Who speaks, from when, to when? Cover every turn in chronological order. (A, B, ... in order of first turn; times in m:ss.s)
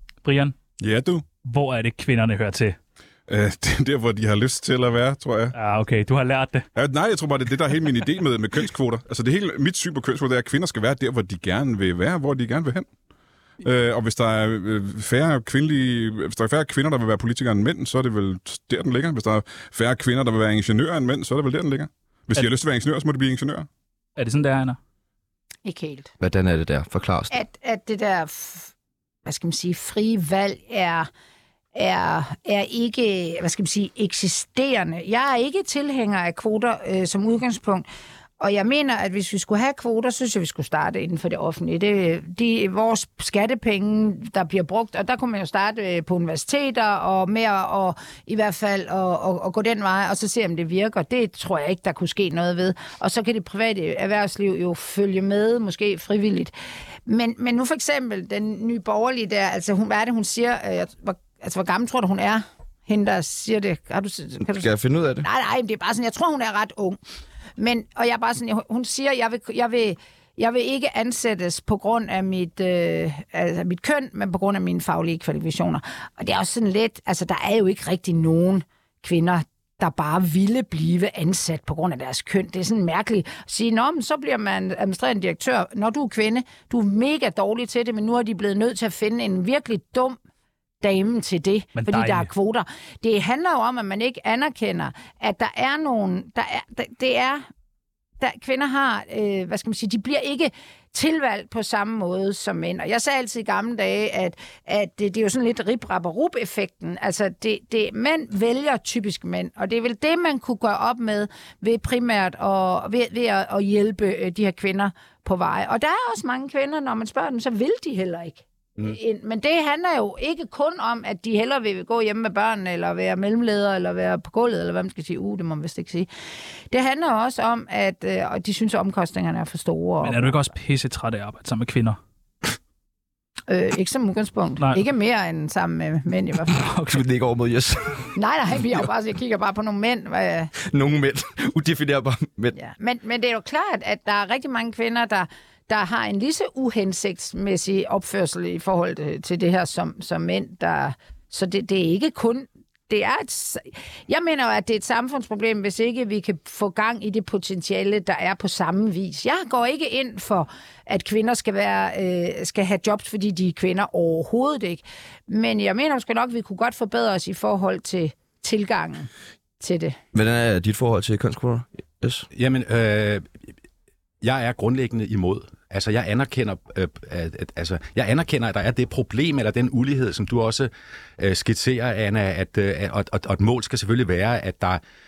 0:00.2-0:00.6 A
0:00.8-0:01.2 B
0:01.4-0:02.8 A
0:03.3-0:05.5 B
0:05.5-0:06.7 A
0:06.7-0:12.9 B
0:13.6-0:23.7 B
0:24.2-0:24.8 A
0:25.6-0:26.1 C
0:26.2-0:27.3 D
0:27.3-0:28.7 C
0:29.2-0:31.1 C
0:31.7-0:37.8 C
0:38.4-0:56.5 C
0:57.0-1:04.7 C
1:04.4-1:05.2 D
1:05.2-1:07.0 C
1:07.6-1:30.2 C
1:30.8-1:37.4 C
1:31.8-1:32.3 A
1:38.2-2:06.1 C
2:06.7-2:10.4 C
2:10.0-2:12.0 A
2:13.5-2:16.6 C
2:16.6-2:17.0 A
2:16.8-2:18.1 D
2:18.1-2:20.5 C
2:20.6-2:22.6 D
2:22.5-2:49.1 C
2:49.6-2:50.0 C
2:50.1-2:52.3 D
2:52.3-2:53.4 E
2:54.2-3:04.8 E